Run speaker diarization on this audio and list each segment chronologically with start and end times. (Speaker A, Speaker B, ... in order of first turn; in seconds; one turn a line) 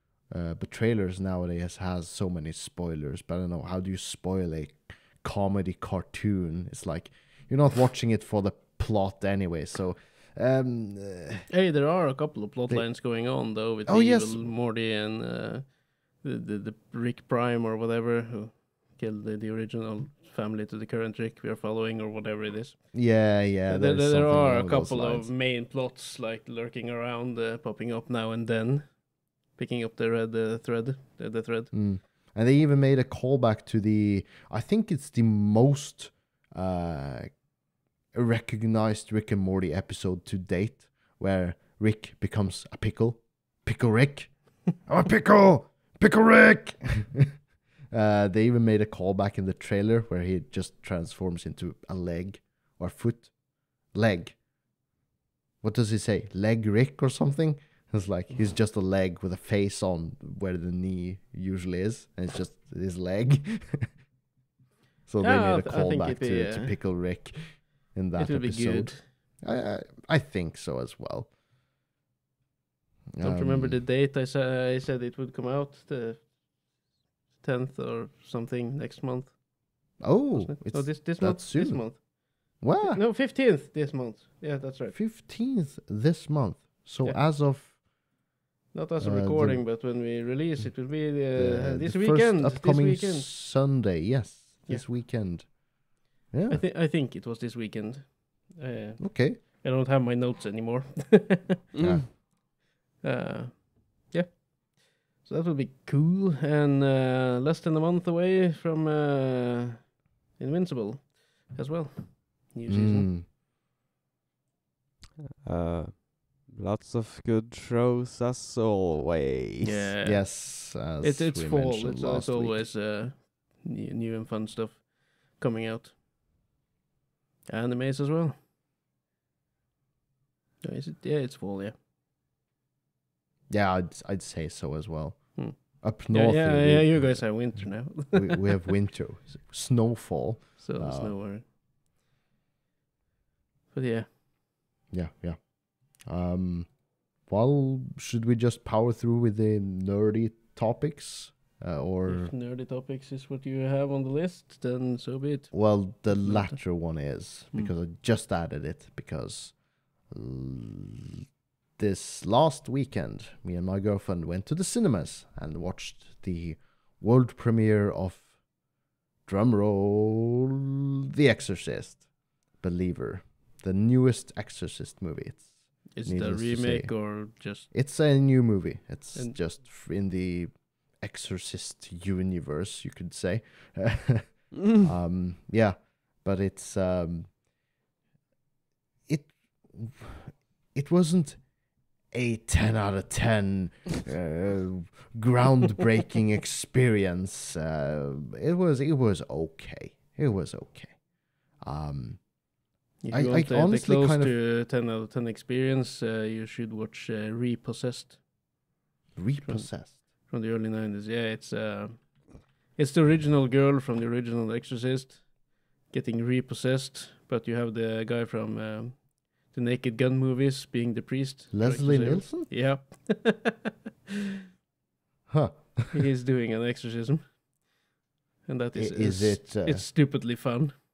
Speaker A: 0.3-11.5
Speaker B: 11.5-23.0
Speaker A: 13.9-14.4
Speaker A: 22.9-25.3
Speaker B: 23.7-31.7
Speaker A: 31.7-37.4
Speaker A: 38.1-47.3
Speaker A: 47.9-54.4
Speaker A: 55.6-64.0
Speaker A: 65.1-71.3
Speaker B: 65.2-66.8
Speaker B: 68.2-69.1
Speaker A: 73.1-73.8
Speaker B: 73.2-76.3
Speaker B: 77.4-79.4
Speaker B: 80.0-85.0
Speaker A: 80.0-82.0
Speaker A: 82.6-83.0
Speaker A: 84.9-87.8
Speaker B: 88.7-93.3
Speaker A: 89.0-89.8
Speaker A: 90.6-95.6
Speaker A: 96.3-96.6
Speaker B: 96.5-101.7
Speaker A: 99.0-99.4
Speaker C: 101.8-102.0
Speaker A: 101.8-102.1
Speaker B: 103.0-113.1
Speaker A: 112.7-113.3
Speaker C: 115.4-119.9
Speaker B: 119.6-125.9
Speaker A: 120.0-122.7
Speaker B: 127.5-128.4
Speaker B: 130.6-131.8
Speaker A: 133.5-141.2
Speaker B: 135.4-138.7
Speaker B: 140.6-141.4
Speaker B: 143.7-144.1
Speaker A: 144.9-152.3
Speaker B: 152.1-156.9
Speaker A: 155.5-161.2
Speaker A: 161.8-168.3
Speaker A: 169.2-170.5
Speaker A: 171.1-187.4
Speaker B: 175.9-177.7
Speaker A: 189.1-191.5
Speaker A: 192.0-201.0
Speaker A: 201.6-202.3
Speaker B: 203.0-208.2
Speaker A: 203.1-204.4
Speaker A: 209.2-210.0
Speaker B: 209.4-223.6
Speaker A: 221.5-222.5
Speaker A: 225.3-226.1
Speaker B: 225.9-227.4
Speaker B: 228.4-230.7
Speaker A: 228.8-229.9